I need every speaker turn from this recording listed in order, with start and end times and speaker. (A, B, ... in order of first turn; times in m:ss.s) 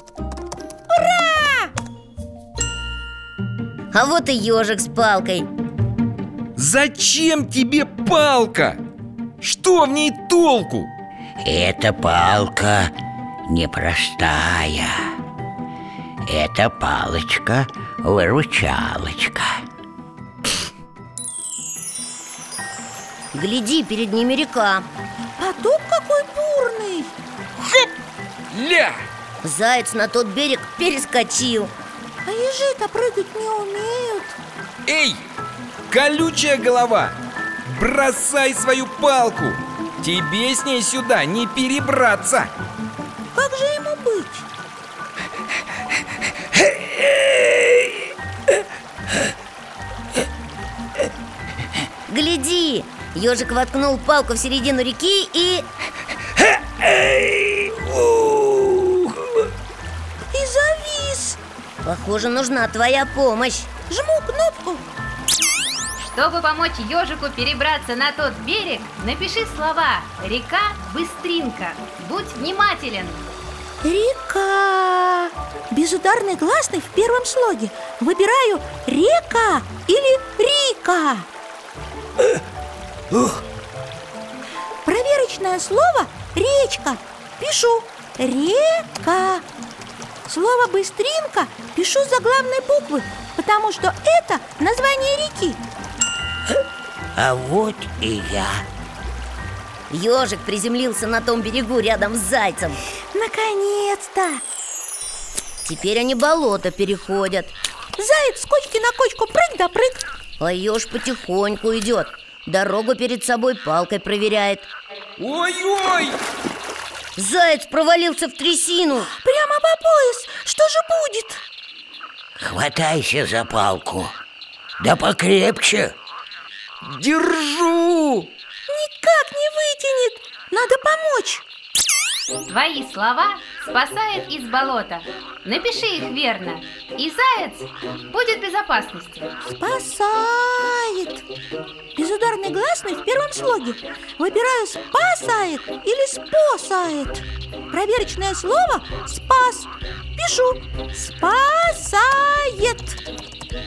0:00.9-0:01.7 A
0:03.9-0:05.5 B
0:06.6-0:08.8 C
0:09.4-0:10.9 C
0:11.4-0:12.9 D
0:13.5-0:15.2 D
0:16.2-0:19.6 D
0:23.3-0:24.9 B
0:25.4-0:27.1 A
0:27.6-0:27.9 C
0:28.5-0:29.0 C
0:29.4-0:31.7 B
0:32.2-0:34.4 A
0:34.9-0:35.2 C
0:35.9-0:37.1 C
0:37.7-0:42.5 C
0:43.3-0:44.5 A
0:46.6-0:47.9 C
0:52.1-0:55.7 B
0:56.9-0:58.8 C
1:00.3-1:01.4 A
1:01.8-1:03.7 B
1:03.9-1:04.8 A
1:06.0-1:13.3 E
1:13.8-1:21.3 A
1:24.8-1:29.4 A
1:30.3-1:35.6 A
1:37.2-1:38.6 D
1:39.9-1:42.8 B
1:43.1-1:44.4 A
1:45.6-1:47.6 B
1:48.0-1:50.0 A
1:50.4-1:54.7 B
1:55.2-1:56.2 C
1:57.2-1:59.1 B
1:59.1-2:01.4 A
2:02.4-2:04.2 D
2:04.8-2:06.0 D
2:06.9-2:08.3 C
2:08.7-2:11.4 A
2:12.5-2:19.3 E
2:19.4-2:21.2 A
2:22.0-2:33.0 A